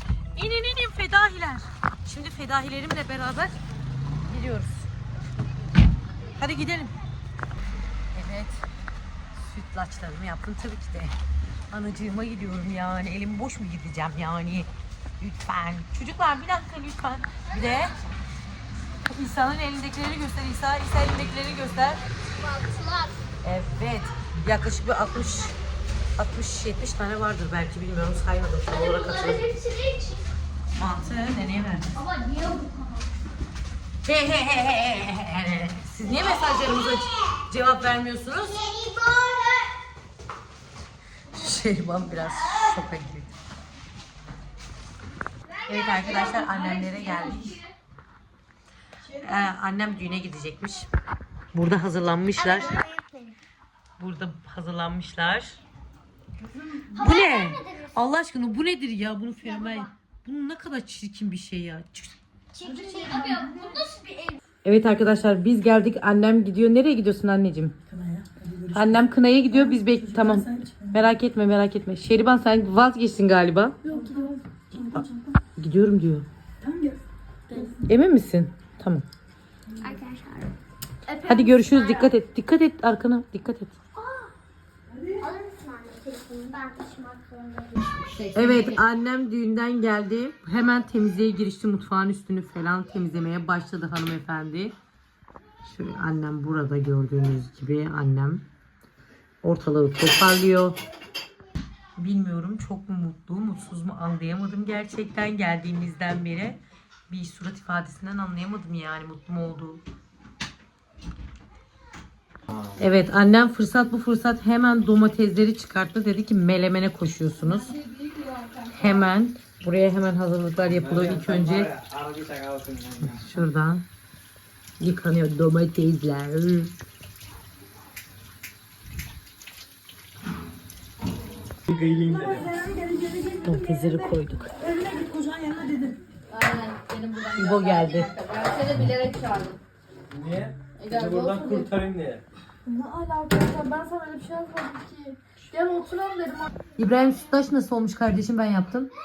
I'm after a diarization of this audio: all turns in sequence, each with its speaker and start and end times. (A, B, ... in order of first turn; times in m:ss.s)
0:00.3-0:03.6 A
0:04.2-0:04.9 A
0:06.4-0:06.9 A
0:08.1-0:08.7 A
0:09.3-0:11.2 A
0:11.7-0:18.0 A
0:19.0-0:22.0 A
0:22.4-0:23.2 B
0:23.4-0:25.6 A
0:26.2-0:29.4 A
0:28.7-0:30.2 B
0:30.7-0:31.9 A
0:31.9-0:33.1 B
0:34.0-0:38.7 A
0:38.5-0:39.7 B
0:41.3-0:43.3 A
0:45.6-0:47.6 A
0:45.7-0:47.2 B
0:46.4-0:47.6 C
0:49.0-0:49.5 D
0:49.2-0:50.9 A
0:51.5-0:52.8 A
0:52.4-0:53.3 B
0:52.4-0:52.8 D
0:54.0-0:55.6 A
0:56.4-0:57.2 D
0:56.9-0:58.0 B
0:57.0-1:02.2 A
0:59.4-0:59.9 B
1:02.5-1:04.4 B
1:02.6-1:03.4 C
1:02.8-1:03.8 D
1:04.6-1:07.7 A
1:07.8-1:11.2 D
1:08.7-1:13.8 A
1:13.8-1:14.4 C
1:13.8-1:15.4 D
1:15.6-1:16.3 A
1:16.6-1:17.9 D
1:17.5-1:17.7 C
1:17.8-1:19.0 A
1:19.7-1:20.0 D
1:19.8-1:20.5 B
1:21.1-1:22.1 C
1:21.2-1:23.8 A
1:24.0-1:24.3 B
1:24.9-1:25.3 D
1:25.2-1:28.1 B
1:28.0-1:28.8 C
1:28.3-1:34.7 A
1:35.6-1:38.4 A
1:39.4-1:40.8 A
1:42.0-1:49.8 A
1:52.5-1:52.8 E
1:52.8-1:57.7 A
1:57.4-1:59.1 C
1:58.7-2:01.7 A
2:00.7-2:03.2 E
2:03.0-2:03.8 A
2:04.8-2:06.7 A
2:11.7-2:12.5 E
2:11.7-2:16.0 D
2:13.4-2:14.5 A
2:16.3-2:19.6 C
2:17.4-2:18.1 A
2:20.1-2:22.2 E
2:20.8-2:21.7 C
2:22.6-2:26.5 C
2:26.8-2:28.9 A